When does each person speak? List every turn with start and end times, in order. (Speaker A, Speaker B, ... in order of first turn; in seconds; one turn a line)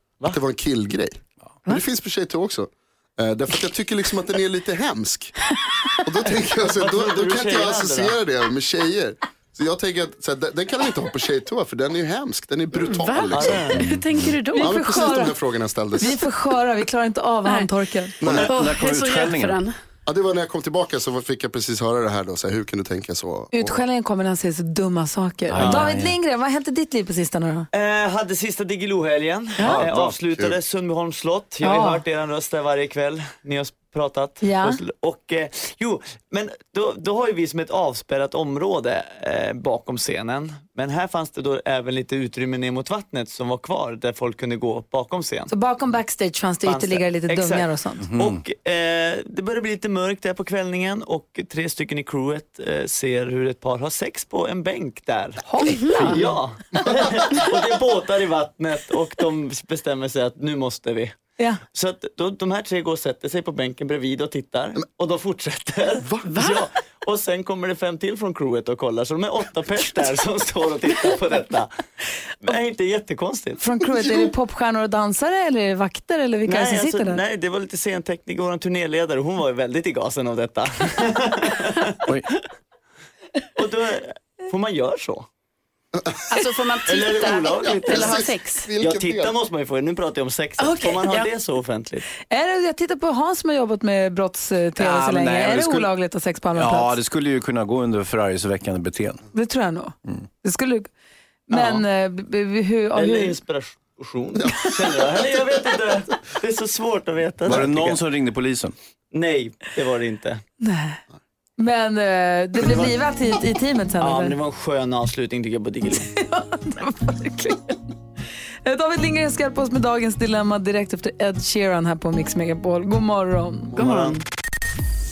Speaker A: 0.3-5.3
Speaker A: 6.0-13.7
Speaker B: 6.7-8.2
Speaker C: 12.7-15.2
Speaker B: 13.3-13.8
Speaker D: 13.7-14.0
Speaker E: 14.5-15.4
Speaker A: 14.5-16.2
Speaker E: 16.0-18.2
Speaker A: 18.2-18.5
Speaker D: 18.2-19.6
Speaker C: 18.4-19.7
Speaker A: 20.1-23.8
Speaker E: 23.5-27.7
Speaker D: 25.5-26.1
Speaker B: 25.6-25.9
Speaker B: 27.7-45.5
Speaker D: 29.6-30.0
Speaker A: 29.8-30.6
Speaker E: 31.6-32.0
Speaker E: 34.4-34.8
Speaker E: 45.5-48.0
Speaker B: 46.6-61.1
Speaker D: 48.0-48.4
Speaker E: 55.4-56.3
Speaker C: 55.6-56.2
Speaker B: 61.7-71.7
Speaker C: 66.2-66.6
Speaker B: 72.4-73.6
Speaker E: 73.6-77.2
Speaker B: 76.4-82.4
Speaker B: 83.5-85.3
Speaker C: 86.3-88.7
Speaker B: 86.8-88.3
Speaker A: 87.8-89.3
Speaker B: 88.8-92.1
Speaker E: 90.6-91.2
Speaker E: 92.1-96.9
Speaker D: 94.8-95.9
Speaker D: 96.5-99.2
Speaker E: 99.3-100.9
Speaker B: 101.5-101.8
Speaker E: 101.5-103.4
Speaker B: 102.9-108.0
Speaker D: 107.5-108.7
Speaker B: 109.1-110.4
Speaker E: 110.6-111.0
Speaker E: 111.6-114.3
Speaker B: 114.0-116.1
Speaker E: 116.0-117.8
Speaker E: 118.6-124.2
Speaker B: 123.7-124.2